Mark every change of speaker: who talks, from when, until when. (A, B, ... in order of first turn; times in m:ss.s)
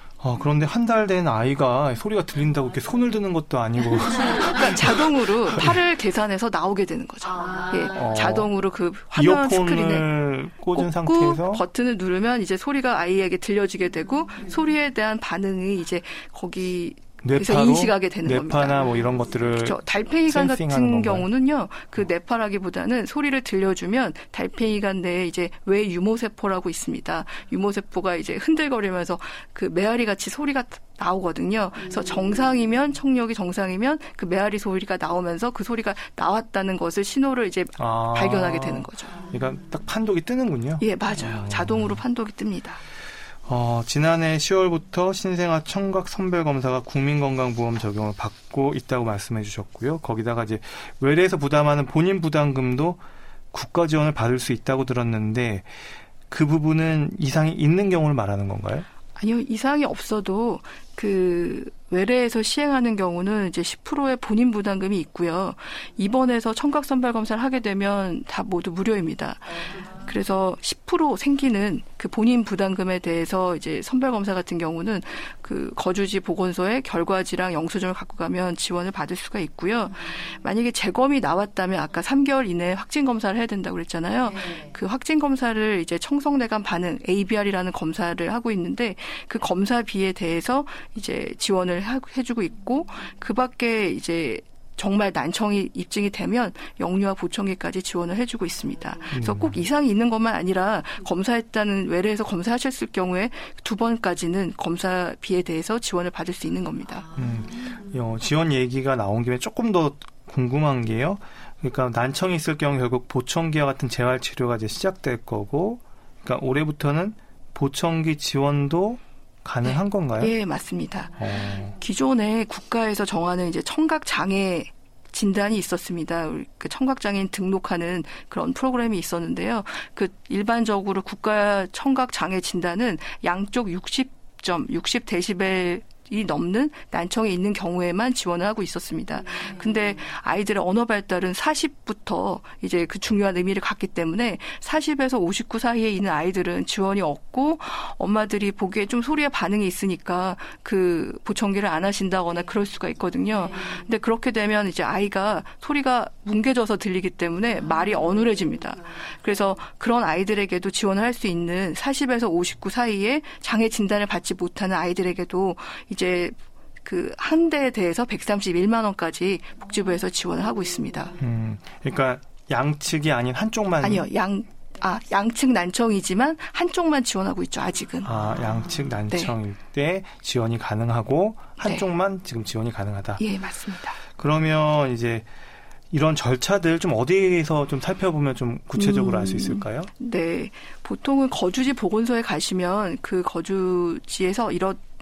0:00.2-0:04.9 A
0:04.4-0:10.1 B
0:07.9-0:08.5 A
0:09.2-0:11.6 A
0:10.7-0:39.3 B
0:17.2-0:21.3 A
0:37.8-0:42.0 A
0:40.8-0:42.8 B
0:43.5-0:53.0 A
0:53.5-0:55.7 A
0:56.3-0:58.9 A
0:59.2-1:47.1 B
1:39.1-1:39.6 A
1:47.2-2:00.3 A
1:59.6-2:51.2 B
2:01.2-2:01.7 A
2:51.2-2:54.0 A
2:53.8-2:58.2 B
2:58.0-3:03.2 A
2:59.1-2:59.4 B
3:03.2-3:04.0 B
3:04.1-3:05.3 A
3:05.9-3:09.9 A
3:08.8-3:14.8 B